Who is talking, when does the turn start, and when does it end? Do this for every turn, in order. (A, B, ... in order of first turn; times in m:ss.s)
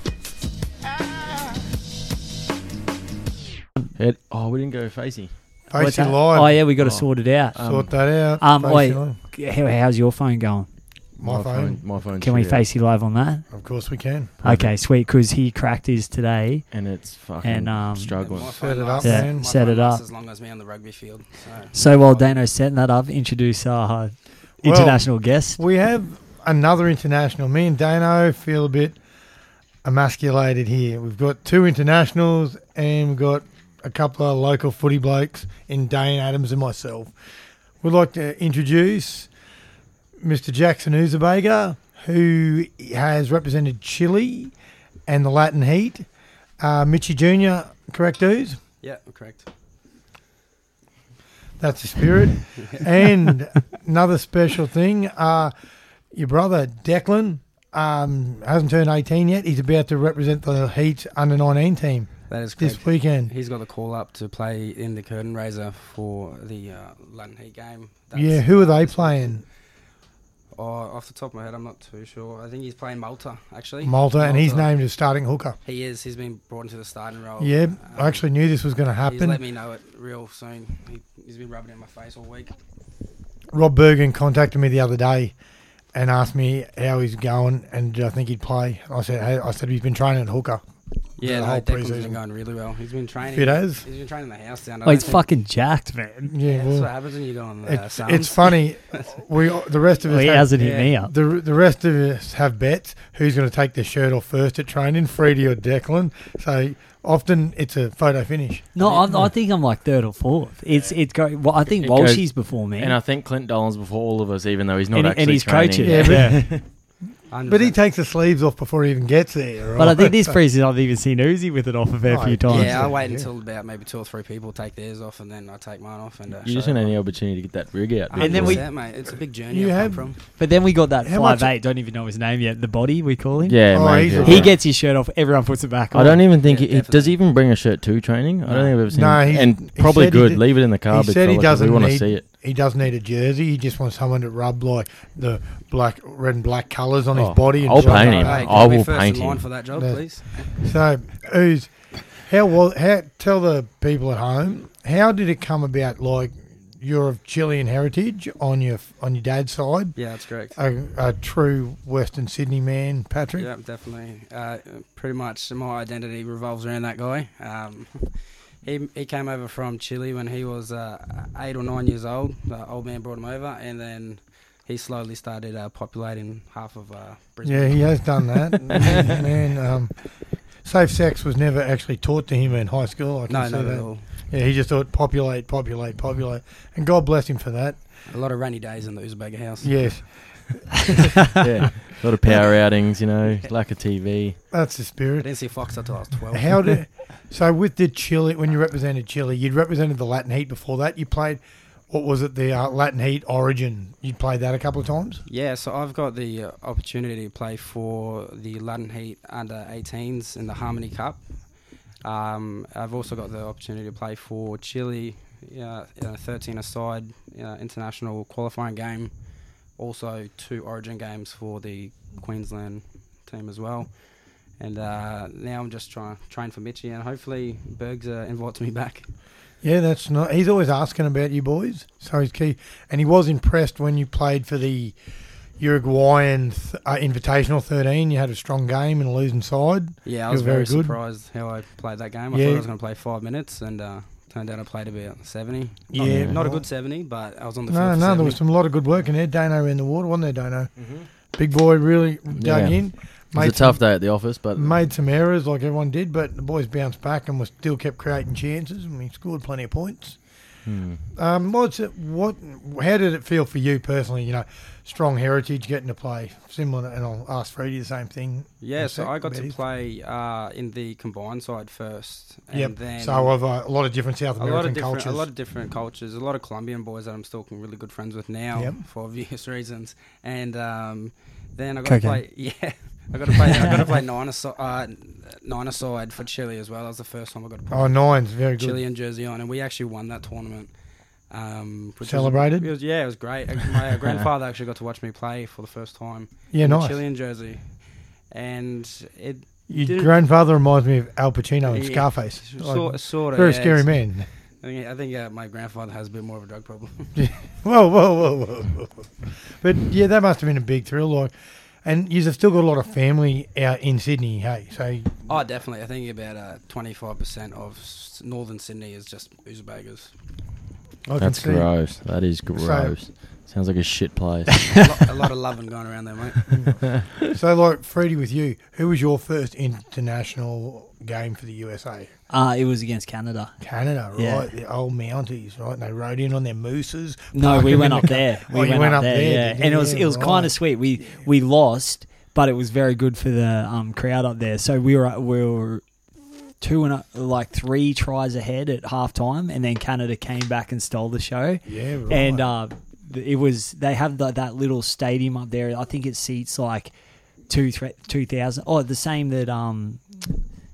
0:04.0-0:05.3 A
0:05.7-0:06.6 B
0:05.7-0:07.6 C
0:06.8-0:07.9 A
0:07.6-0:09.2 B
0:08.4-0:10.7 C
0:11.2-0:11.8 B
0:11.2-0:12.6 A
0:12.2-0:13.4 C
0:13.5-0:14.4 B
0:14.4-0:14.7 A
0:14.4-0:16.6 C
0:16.7-0:18.5 A
0:17.4-0:18.2 C
0:18.2-0:21.7 D
0:18.5-0:19.4 B
0:19.0-0:20.0 C
0:21.7-0:25.6 C
0:24.6-0:29.0 B
0:29.8-0:37.1 B
0:37.8-0:39.3 B
0:40.2-0:44.5 B
0:45.1-0:46.1 B
0:46.6-0:48.6 B
0:48.8-0:49.5 D
0:51.6-0:55.5 B
0:52.6-0:52.8 D
0:56.1-1:03.3 B
1:02.3-1:09.4 D
1:08.1-1:09.4 B
1:10.5-1:14.7 D
1:13.8-1:15.6 B
1:15.6-1:18.2 D
1:17.4-1:19.4 B
1:19.0-1:22.6 D
1:23.5-1:25.3 B
1:25.9-1:30.6 B
1:31.2-1:35.2 D
1:31.2-1:32.2 B
1:33.3-1:33.8 B
1:34.8-1:36.3 C
1:36.3-1:36.9 B
1:36.4-1:39.1 D
1:37.6-1:48.7 B
1:40.1-1:41.1 C
1:40.6-1:40.9 D
1:48.7-1:53.0 C
1:48.8-1:49.1 D
1:51.8-1:56.6 A
1:54.9-1:56.5 C
1:55.8-1:56.6 B
1:57.3-1:57.8 D
1:57.5-2:00.4 B
1:59.8-2:02.9 C
2:02.1-2:03.3 B
2:02.5-2:07.0 D
2:06.4-2:08.6 A
2:08.1-2:10.2 D
2:08.2-2:08.6 C
2:09.5-2:10.2 B
2:10.4-2:16.2 C
2:11.0-2:11.5 B
2:13.4-2:14.6 A
2:13.7-2:14.5 B
2:15.9-2:22.2 A
2:16.4-2:17.2 D
2:18.4-2:18.7 D
2:18.9-2:28.7 B
2:27.1-2:29.4 A
2:27.7-2:30.6 D
2:29.8-2:30.0 B
2:30.5-2:39.9 B
2:40.0-2:40.6 D
2:40.5-2:43.5 B
2:43.4-2:59.3 D
2:57.4-2:59.9 B
3:00.6-3:07.8 B
3:03.3-3:04.0 D
3:08.1-3:10.1 D
3:09.6-3:11.0 B
3:11.3-3:14.4 A
3:14.5-3:15.3 B
3:15.2-3:16.8 D
3:16.3-3:25.2 B
3:25.3-3:31.3 D
3:32.0-3:39.1 D
3:39.8-3:43.9 D
3:44.6-3:49.1 D
3:49.6-3:55.0 B
3:55.6-4:01.0 B
4:00.0-4:08.4 D
4:02.3-4:02.6 B
4:05.9-4:06.6 B
4:06.0-4:06.4 A
4:07.7-4:10.7 B
4:11.3-4:13.8 B
4:12.3-4:12.8 A
4:13.3-4:14.7 A
4:14.5-4:20.2 B
4:20.6-4:21.0 A
4:21.1-4:29.5 B
4:28.6-4:33.3 D
4:32.5-4:35.3 B
4:34.4-4:48.0 D
4:38.6-4:38.8 B
4:41.8-4:42.2 C
4:47.7-4:48.8 B
4:48.6-4:50.7 D
4:51.3-4:57.6 D
4:52.0-4:52.7 B
4:56.5-4:57.0 B
4:58.3-5:00.2 D
4:59.7-5:04.3 B
5:01.7-5:03.9 D
5:04.6-5:07.1 D
5:07.2-5:11.3 B
5:11.8-5:15.2 B
5:15.3-5:20.1 D
5:21.1-5:21.8 B
5:21.2-5:24.8 A
5:22.5-5:22.9 B
5:24.8-5:26.7 D
5:26.5-5:32.1 B
5:32.3-5:33.5 C
5:33.6-5:40.5 B
5:34.2-5:34.5 C
5:37.3-5:45.8 C
5:46.6-5:56.9 C
5:51.6-5:52.5 B
5:57.5-6:00.0 C